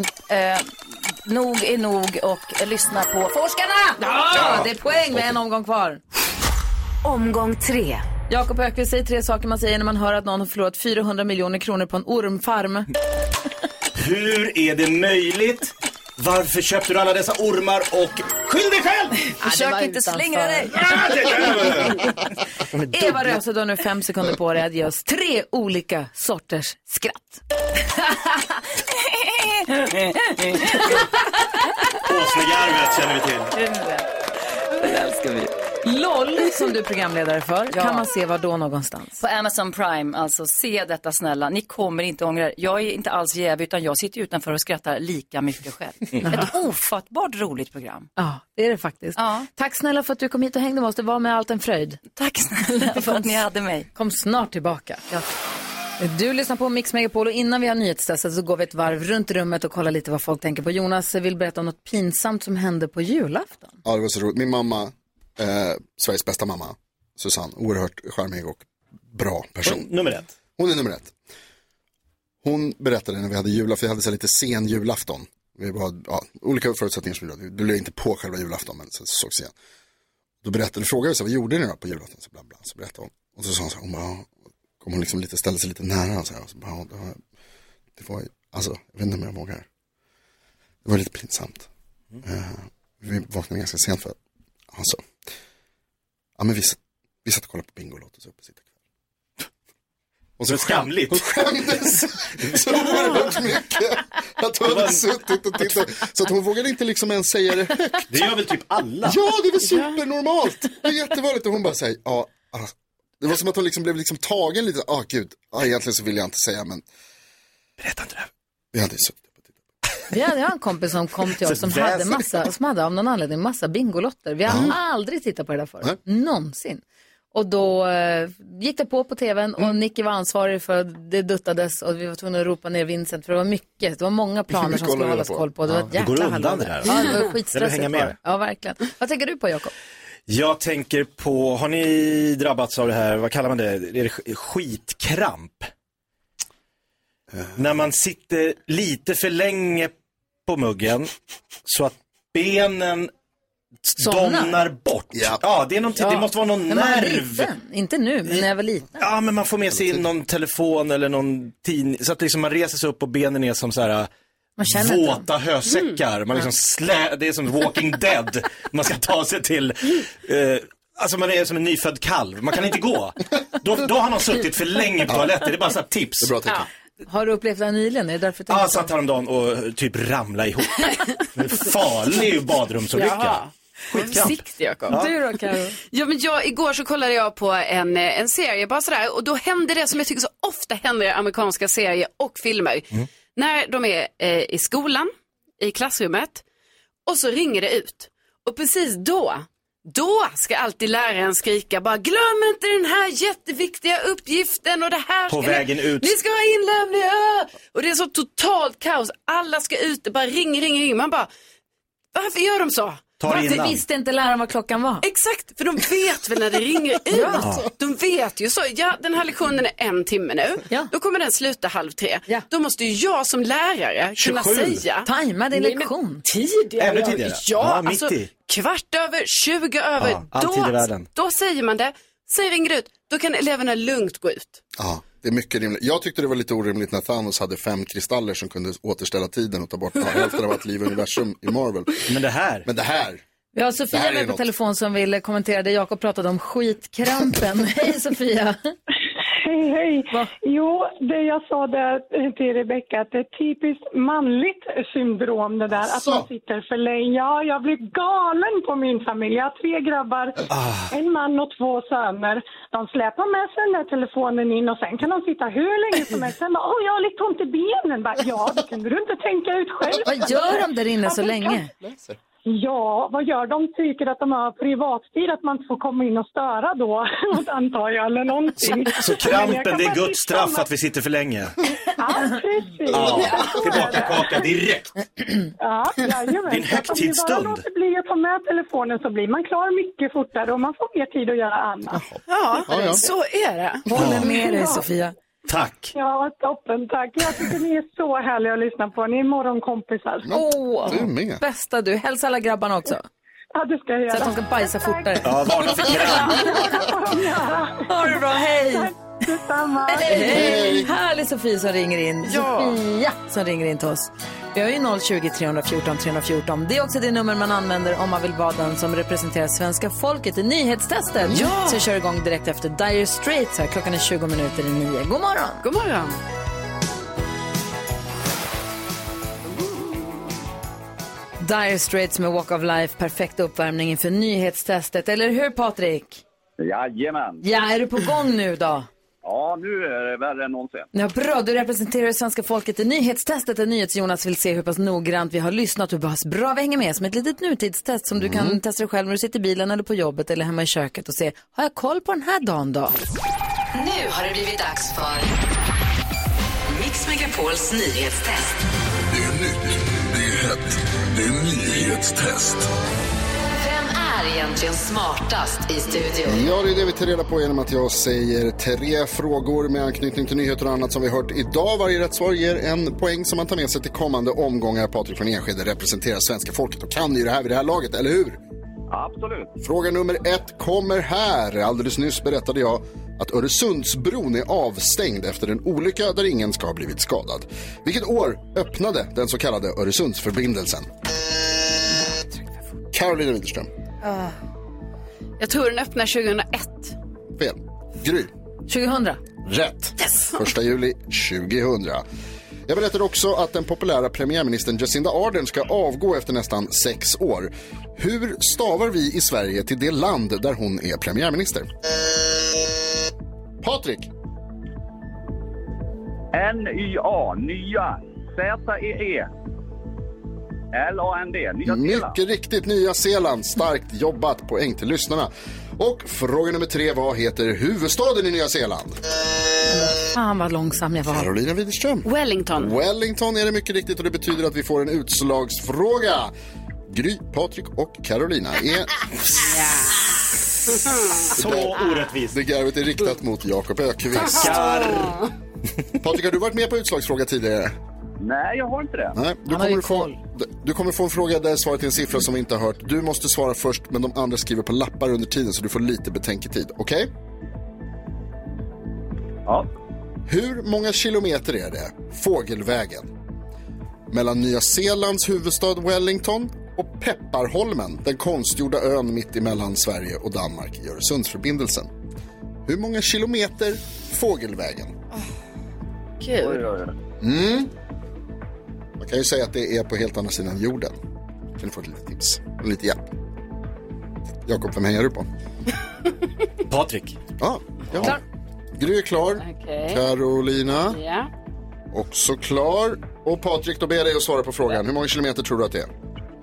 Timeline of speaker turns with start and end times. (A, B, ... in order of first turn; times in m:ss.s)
0:00.3-0:04.0 A
0:04.0-0:06.0 B
0:04.3-0:04.8 C
0:07.0-0:08.1 D
0:08.3-0:12.9 B
0:14.0-0:19.3 C
0:19.4-0:20.8 A
0:19.4-0:20.7 B
0:20.7-0:22.1 C
0:22.8-0:23.2 C
0:22.9-0:27.4 B
0:29.1-0:30.7 A
0:32.0-0:33.6 C
0:33.6-0:34.1 A
0:35.8-0:39.2 B
0:37.7-0:38.1 A
0:39.2-0:48.1 A
0:48.2-0:52.0 B
0:49.2-0:49.5 A
0:52.2-0:53.9 A
0:53.0-0:53.3 B
0:54.0-0:55.0 B
0:56.0-1:03.8 B
1:03.8-1:09.8 E
1:09.6-1:10.3 C
1:10.6-1:11.1 E
1:12.4-1:19.5 E
1:20.4-1:27.2 E
1:28.0-1:29.7 E
1:30.8-1:31.7 E
1:32.2-1:34.2 E
1:34.7-1:35.1 E
1:36.4-1:38.6 E
1:40.4-1:48.2 E
1:40.5-1:41.4 C
1:44.6-1:45.0 C
1:48.1-1:49.2 C
1:49.0-1:56.8 E
1:57.8-1:58.3 C
1:58.7-1:59.4 E
2:00.1-2:06.8 B
2:01.4-2:02.4 C
2:04.5-2:04.8 E
2:07.3-2:19.7 B
2:14.5-2:15.9 E
2:15.9-2:18.2 C
2:20.3-2:25.7 C
2:27.3-2:27.6 E
2:27.6-2:29.9 C
2:30.5-2:31.1 C
2:31.7-2:33.1 C
2:33.8-2:37.5 C
2:34.0-2:34.5 B
2:35.1-2:35.4 E
2:36.7-2:39.0 B
2:39.0-2:44.1 C
2:39.7-2:40.1 E
2:44.6-2:45.2 B
2:44.6-2:56.4 C
2:45.7-2:46.0 F
2:55.1-2:55.4 E
2:56.2-2:56.6 E
2:57.1-2:58.9 B
2:58.5-3:05.1 C
3:02.9-3:05.0 F
3:04.9-3:05.8 B
3:05.9-3:16.4 F
3:17.1-3:31.3 F
3:25.3-3:26.2 C
3:32.1-3:33.1 F
3:33.2-3:33.8 C
3:33.3-3:35.0 B
3:35.0-3:54.6 F
3:37.1-3:37.5 B
3:44.2-3:44.8 C
3:45.0-3:46.2 B
3:46.8-3:48.3 C
3:50.0-3:51.1 C
3:54.8-4:02.1 E
4:02.1-4:02.7 C
4:02.7-4:03.2 E
4:03.5-4:08.7 B
4:03.9-4:04.4 E
4:09.3-4:30.7 G
4:15.8-4:16.3 E
4:20.5-4:20.9 C
4:30.0-4:31.7 B
4:31.8-4:32.2 E
4:32.5-4:40.7 G
4:39.0-4:41.6 C
4:41.9-4:44.4 G
4:42.9-4:45.0 C
4:43.1-4:43.5 F
4:45.6-4:52.0 G
4:46.5-4:47.6 C
4:51.9-4:53.1 E
4:52.3-4:53.9 F
4:53.9-4:55.1 B
4:53.9-4:54.3 C
4:54.1-4:54.9 G
4:55.5-4:55.9 C
4:55.9-5:00.4 G
5:00.2-5:01.4 E
5:00.3-5:03.0 B
5:03.5-5:10.5 G
5:04.1-5:05.3 B
5:05.2-5:06.6 C
5:05.9-5:06.6 B
5:07.9-5:08.9 B
5:09.8-5:25.6 B
5:10.1-5:10.9 E
5:12.3-5:12.8 F
5:21.3-5:21.8 F
5:25.6-5:26.2 F
5:31.4-5:36.2 B
5:36.6-5:37.4 H
5:37.4-5:38.9 B
5:39.2-5:40.9 H
5:40.9-5:53.0 B
5:48.2-5:48.6 E
5:53.8-5:55.3 D
5:56.7-5:58.6 D
5:59.1-6:02.7 I
6:03.7-6:06.3 D
6:06.2-6:18.4 E
6:18.9-6:19.5 H
6:19.6-6:30.9 E
6:32.9-6:33.7 E
6:35.4-6:37.0 F
6:37.4-6:38.3 E
6:38.7-6:39.2 B
6:39.4-6:42.0 E
6:40.0-6:40.4 F
6:42.7-6:51.7 E
6:53.6-6:54.1 E
6:56.3-6:59.3 H
7:00.7-7:02.2 H
7:01.6-7:09.0 E
7:09.7-7:11.3 B
7:11.1-7:12.1 E
7:12.0-7:12.8 F
7:12.6-7:16.3 E
7:16.9-7:19.1 E
7:19.4-7:20.2 F
7:20.7-7:22.0 F
7:21.4-7:22.4 C
7:21.4-7:21.8 E
7:22.3-7:24.7 E
7:24.2-7:25.2 C
7:24.3-7:25.3 F
7:26.0-7:27.8 E
7:28.2-7:29.2 H
7:29.2-7:37.1 E
7:29.5-7:30.2 B
7:40.3-7:43.1 E
7:44.1-7:51.9 E
7:52.7-7:55.0 E
7:56.2-7:56.6 F
7:56.4-7:57.0 H
7:57.2-7:57.7 E
7:59.0-8:01.0 E
8:01.6-8:03.1 E
8:04.5-8:05.3 E
8:06.7-8:07.2 C
8:07.4-8:08.2 E
8:08.8-8:11.0 E
8:09.4-8:10.0 F
8:10.9-8:11.3 F
8:11.9-8:15.9 E